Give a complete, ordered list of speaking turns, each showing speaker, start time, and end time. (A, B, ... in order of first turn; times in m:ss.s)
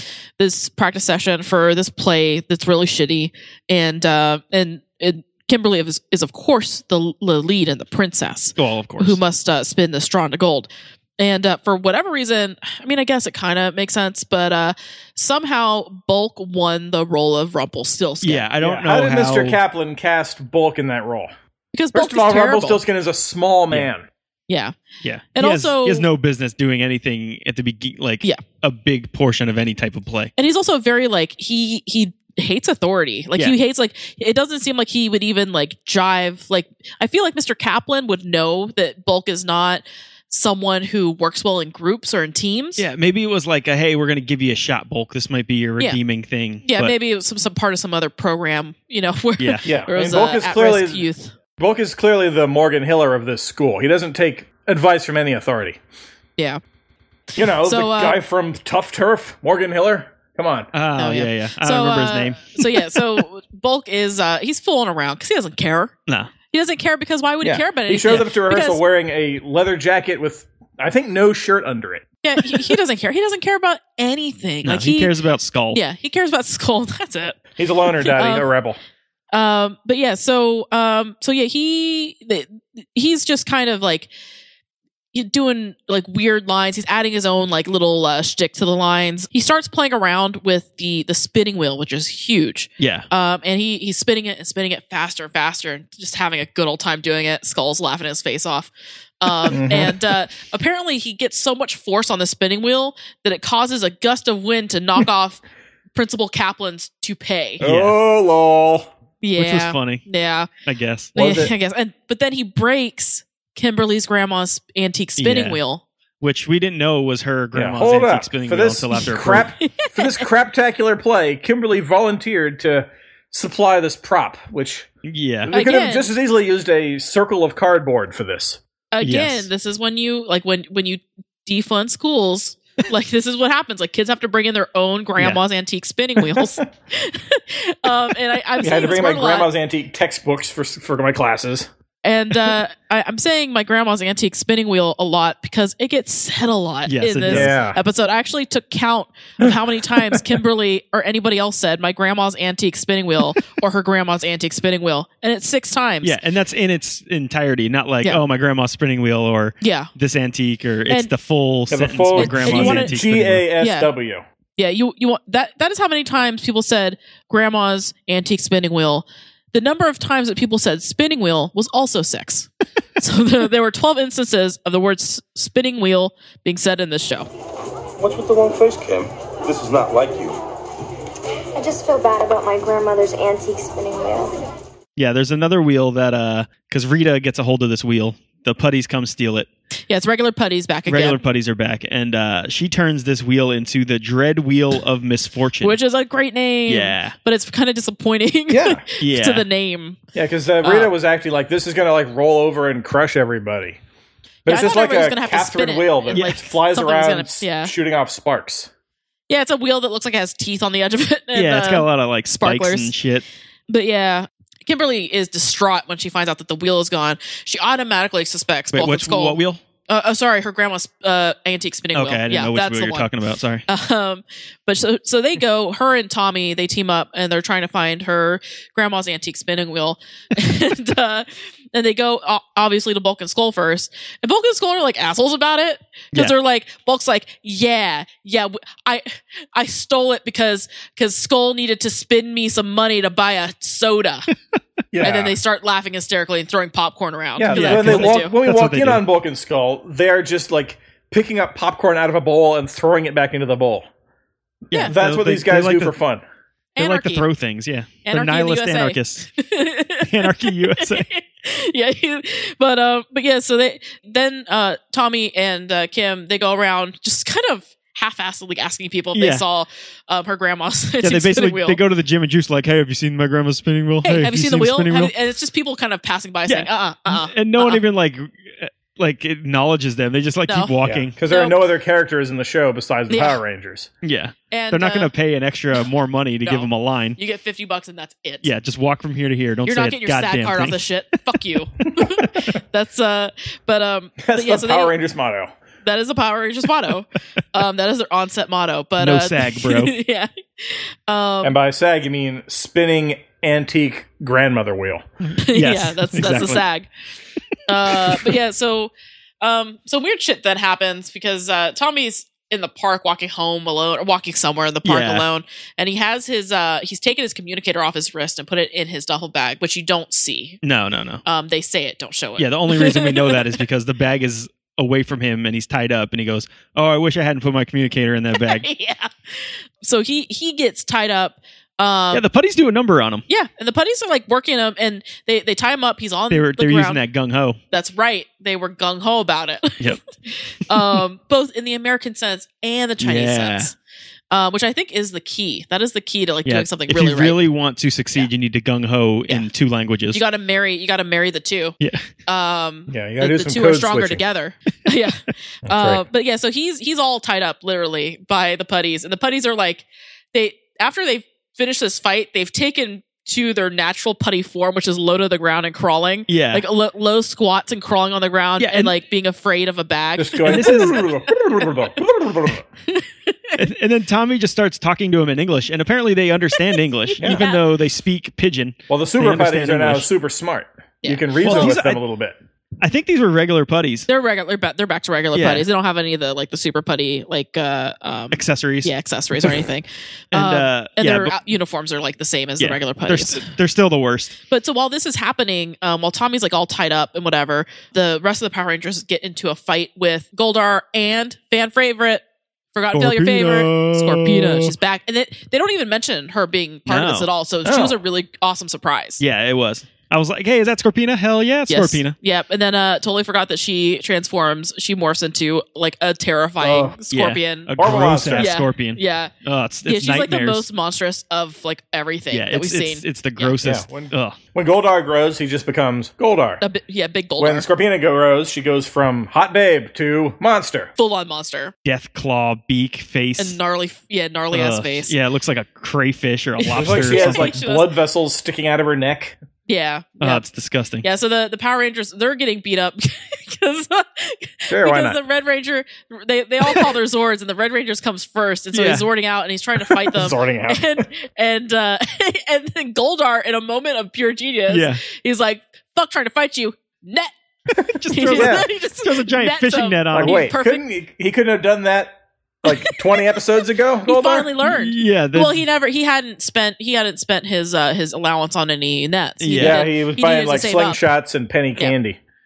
0:00.4-0:18.4 A
0:08.6-0:09.2 B
0:18.2-0:19.6 B
0:18.6-0:21.3 C
0:21.7-0:22.8 A
0:21.9-0:24.0 C
0:24.5-0:24.7 A
0:25.0-0:30.3 B
0:25.3-0:26.1 A
0:30.4-0:42.8 A
0:42.8-0:46.9 B
0:46.6-0:51.3 A
0:49.4-0:49.6 B
0:49.6-0:51.1 C
0:51.6-0:55.8 C
0:57.4-1:00.7 C
0:57.6-0:58.2 A
1:00.7-1:03.2 B
1:01.0-1:05.9 A
1:06.5-1:08.8 A
1:07.4-1:12.0 C
1:12.2-1:15.1 A
1:14.6-1:15.8 B
1:15.7-1:17.4 A
1:17.6-1:18.8 C
1:18.0-1:18.5 A
1:19.3-1:24.1 A
1:25.1-1:38.7 A
1:32.8-1:33.0 B
1:39.2-1:45.4 A
1:39.5-1:40.0 C
1:45.9-1:47.6 A
1:47.6-1:48.9 C
1:47.6-1:48.0 B
1:49.2-1:50.5 A
1:49.4-1:50.0 B
1:50.6-1:51.1 B
1:51.1-1:51.5 C
1:51.1-1:55.8 A
1:55.2-1:55.6 B
1:56.2-1:59.5 B
1:57.5-2:04.9 C
1:59.6-2:00.2 A
2:05.0-2:05.5 B
2:05.5-2:08.6 C
2:05.5-2:06.1 A
2:08.9-2:19.5 A
2:09.0-2:09.5 B
2:18.6-2:21.7 C
2:22.0-2:36.1 A
2:26.9-2:27.5 B
2:27.3-2:27.8 C
2:36.0-2:43.4 B
2:39.6-2:39.9 A
2:41.7-2:44.2 C
2:42.2-2:42.9 A
2:43.6-2:43.9 A
2:44.6-2:57.3 A
2:58.0-3:00.4 D
3:01.6-3:04.3 E
3:05.0-3:09.5 B
3:09.9-3:11.2 A
3:10.9-3:15.8 B
3:15.6-3:20.0 A
3:16.7-3:17.1 B
3:18.5-3:18.8 C
3:19.0-3:19.4 B
3:20.1-3:23.8 C
3:20.6-3:20.9 A
3:24.4-3:28.7 C
3:24.5-3:27.7 A
3:26.1-3:26.4 B
3:29.3-3:32.9 A
3:31.3-3:33.2 B
3:33.7-3:43.1 A
3:38.7-3:39.6 B
3:41.9-3:43.6 B
3:43.7-4:04.3 A
4:04.9-4:05.4 C
4:05.0-4:08.3 A
4:07.4-4:13.9 C
4:07.5-4:09.0 B
4:14.7-4:15.9 B
4:14.9-4:16.2 C
4:16.8-4:17.2 A
4:16.8-4:19.3 B
4:18.0-4:31.8 A
4:20.0-4:21.1 B
4:29.1-4:29.4 B
4:31.0-4:35.1 B
4:34.0-4:37.8 A
4:36.5-4:41.1 B
4:40.5-4:40.7 A
4:40.8-4:43.9 C
4:41.2-4:41.6 A
4:43.1-4:43.4 A
4:44.0-4:47.2 B
4:44.5-4:45.1 A
4:46.4-4:48.5 A
4:48.4-4:50.8 B
4:49.6-4:54.9 A
4:54.2-4:55.5 C
4:55.8-5:01.5 A
4:59.0-4:59.9 B
5:01.4-5:05.0 C
5:05.2-5:06.6 B
5:05.4-5:06.9 A
5:07.7-5:20.6 A
5:07.9-5:08.4 B
5:14.8-5:15.2 B
5:20.6-5:21.2 B
5:21.2-5:23.6 A
5:22.4-5:28.6 B
5:28.3-5:32.2 A
5:32.1-5:33.2 B
5:33.3-5:37.0 A
5:36.3-5:37.6 B
5:37.7-5:43.7 A
5:43.0-5:43.7 B
5:44.3-5:47.4 A
5:46.4-5:50.2 B
5:50.1-5:51.8 A
5:52.3-6:11.0 A
5:52.9-5:54.2 C
5:55.6-5:56.0 C
6:06.3-6:06.6 B
6:08.6-6:08.9 B
6:10.2-6:12.7 C
6:10.4-6:11.0 B
6:12.9-6:13.6 A
6:13.6-6:20.1 B
6:17.1-6:17.6 A
6:18.9-6:22.4 C
6:21.0-6:21.8 A
6:21.4-6:22.0 B
6:22.8-6:24.1 B
6:24.1-6:33.5 A
6:25.3-6:25.6 B
6:28.3-6:29.6 B
6:30.3-6:31.4 B
6:32.6-6:34.3 B
6:34.5-6:42.2 A
6:42.7-6:49.2 A
6:42.9-6:44.7 B
6:46.9-6:47.3 B
6:47.6-6:48.0 C
6:49.2-6:52.1 B
6:51.7-6:59.3 A
6:56.6-6:57.0 C
6:57.1-7:00.6 B
6:57.8-6:58.5 C
6:59.8-7:03.5 A
7:02.3-7:04.4 B
7:03.6-7:06.6 C
7:06.6-7:07.7 A
7:07.4-7:10.9 C
7:11.0-7:11.7 A
7:11.8-7:13.6 B
7:13.4-7:15.1 A
7:14.5-7:17.5 B
7:16.6-7:17.9 A
7:16.7-7:19.4 C
7:19.7-7:20.4 A
7:20.2-7:21.0 B
7:21.0-7:37.3 A
7:24.7-7:25.2 C
7:28.7-7:29.0 B
7:30.1-7:31.0 C
7:34.7-7:35.0 B
7:37.8-7:40.5 B
7:38.1-7:40.8 A
7:38.3-7:38.6 C
7:40.1-7:44.5 C
7:44.0-7:51.0 A
7:44.6-7:45.6 B
7:49.4-7:49.9 B
7:49.6-7:52.2 C